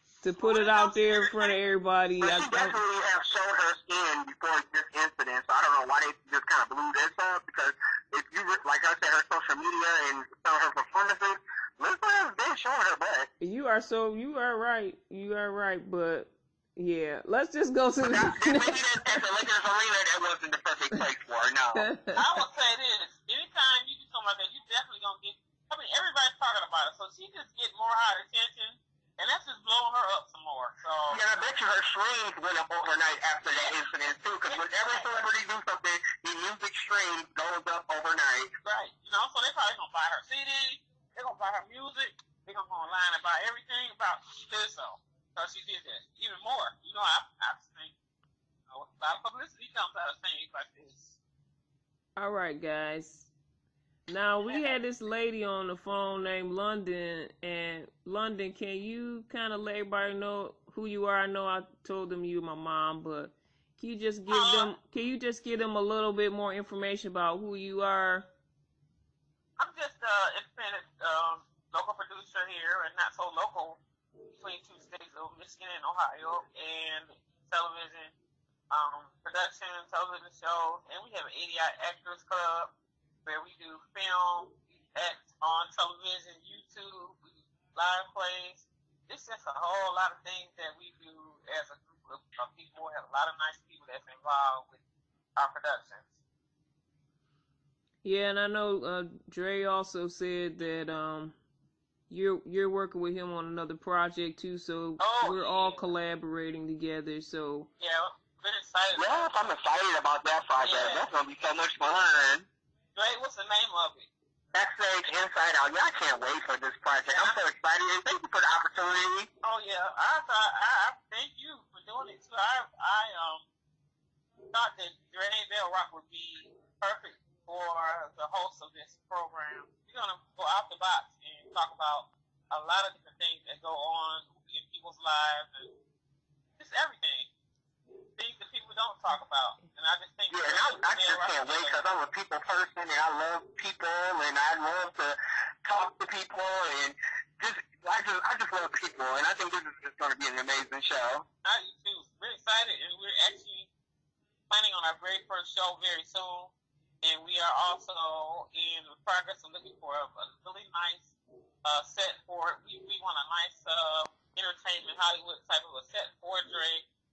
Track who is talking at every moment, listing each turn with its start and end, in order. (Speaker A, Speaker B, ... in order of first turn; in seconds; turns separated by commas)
Speaker A: 0.2-2.8, Speaker B: 0.4-1.6, Speaker C: 2.2-13.3, Speaker A: 13.4-18.9, Speaker C: 18.0-21.9, Speaker A: 21.8-22.2, Speaker B: 22.1-31.2, Speaker C: 31.1-38.5, Speaker B: 34.4-35.1, Speaker B: 38.6-47.9, Speaker B: 48.7-51.2, Speaker A: 52.1-53.3, Speaker A: 54.1-68.3, Speaker B: 54.4-54.7, Speaker B: 64.3-64.7, Speaker B: 69.6-73.8, Speaker B: 74.3-78.1, Speaker B: 78.7-82.7, Speaker B: 83.2-87.2, Speaker B: 87.7-94.8, Speaker B: 95.3-96.1, Speaker A: 98.0-101.3, Speaker A: 102.1-107.7, Speaker B: 105.0-105.8, Speaker B: 107.8-109.4, Speaker C: 108.9-112.5, Speaker B: 110.6-111.0, Speaker B: 112.9-114.1, Speaker C: 114.5-119.3, Speaker B: 117.1-117.4, Speaker B: 119.4-123.4, Speaker B: 124.5-135.7, Speaker B: 136.6-137.3, Speaker B: 138.2-141.8, Speaker C: 140.3-151.2, Speaker B: 151.4-153.7, Speaker B: 154.5-161.1, Speaker B: 161.6-166.8